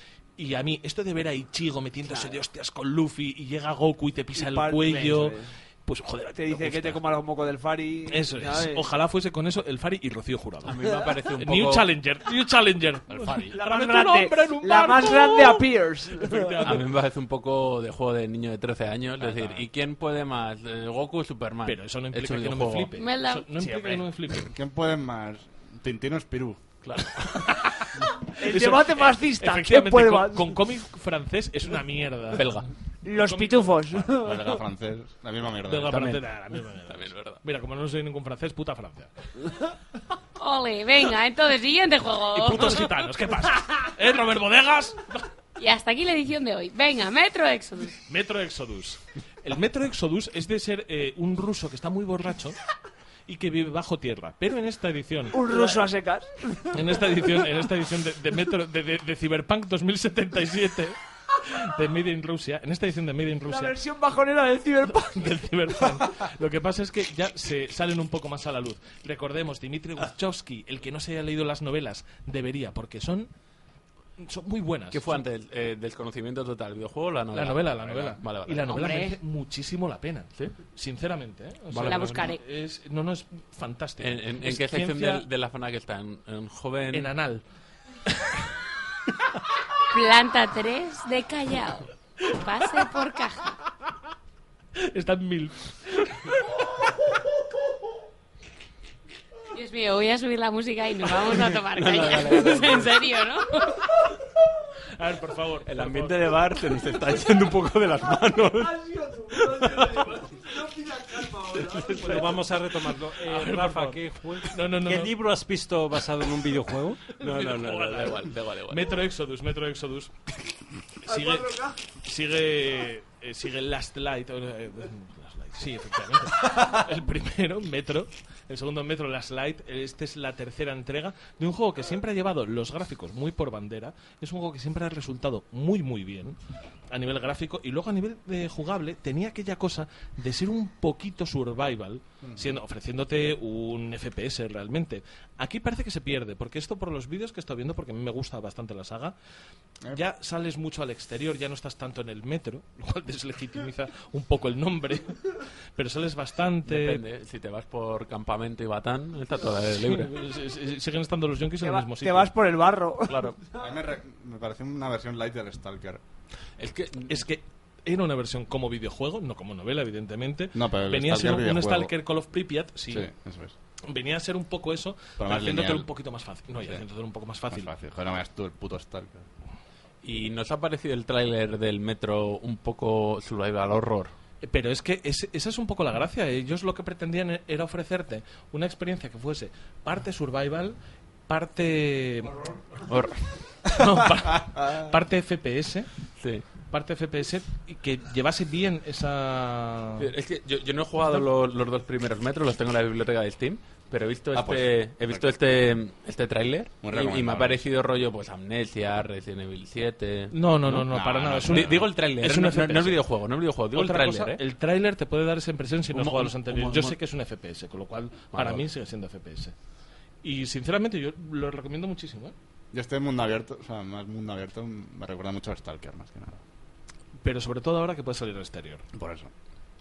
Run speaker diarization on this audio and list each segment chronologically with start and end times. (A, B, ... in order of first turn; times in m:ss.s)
0:00.4-0:07.0 A
0:02.1-0:02.4 B
0:04.4-0:05.5 B
0:06.4-0:08.9 B
0:08.1-0:10.8 A
0:10.6-0:11.9 C
0:11.4-0:16.9 A
0:13.1-0:13.6 D
0:13.5-0:16.8 B
0:16.6-0:23.0 C
0:19.2-0:19.6 D
0:21.6-0:24.5 A
0:23.0-0:23.5 E
0:23.6-0:24.1 B
0:24.4-0:26.6 D
0:26.8-0:27.6 C
0:27.2-0:32.5 A
0:28.4-0:30.6 B
0:32.3-0:32.7 C
0:33.0-0:34.6 B
0:33.2-0:33.8 A
0:34.1-0:36.0 D
0:35.6-0:39.1 A
0:35.8-0:36.2 C
0:36.9-0:37.4 C
0:40.4-0:42.8 E
0:42.3-0:45.3 A
0:45.6-0:48.0 E
0:48.1-0:52.6 A
0:53.3-0:55.6 A
0:55.3-0:56.8 B
0:56.7-1:03.8 A
1:03.5-1:05.4 B
1:04.9-1:13.3 A
1:14.2-1:15.2 A
1:14.9-1:19.0 C
1:17.3-1:25.2 A
1:18.7-1:19.2 E
1:21.7-1:22.2 C
1:21.8-1:22.4 E
1:24.0-1:27.1 C
1:26.9-1:27.4 A
1:28.1-1:28.5 A
1:29.9-1:33.6 E
1:34.8-1:36.6 A
1:39.5-1:43.8 E
1:41.2-1:43.0 C
1:45.0-1:46.3 A
1:45.7-1:48.8 C
1:48.6-1:52.4 B
1:49.4-1:50.2 C
1:51.5-1:52.3 C
1:52.0-1:57.1 F
1:53.2-1:55.2 A
1:57.1-2:00.1 A
1:57.2-1:58.9 C
2:01.0-2:16.4 A
2:01.1-2:01.8 B
2:16.9-2:29.2 A
2:22.2-2:22.6 D
2:29.9-2:37.0 A
2:36.6-2:40.2 C
2:39.8-2:42.3 A
2:41.6-2:43.3 B
2:43.1-2:43.4 C
2:43.6-2:46.0 D
2:46.6-2:47.2 C
2:47.1-2:53.1 A
2:50.6-2:51.9 D
2:52.9-2:53.5 D
2:53.9-2:57.7 A
2:55.2-2:55.9 D
2:57.5-2:59.3 D
3:00.0-3:04.1 C
3:04.4-3:10.8 A
3:11.3-3:12.4 A
3:12.9-3:13.2 C
3:13.7-3:15.9 A
3:14.6-3:14.8 D
3:16.2-3:16.4 C
3:16.7-3:20.1 A
3:20.0-3:34.4 C
3:24.3-3:25.3 D
3:26.8-3:27.6 D
3:30.3-3:33.0 A
3:30.9-3:31.8 D
3:33.7-3:39.5 A
3:35.9-3:37.0 C
3:38.3-3:38.6 C
3:40.2-3:42.4 A
3:42.7-3:46.4 D
3:47.2-3:48.9 A
3:48.9-3:49.3 D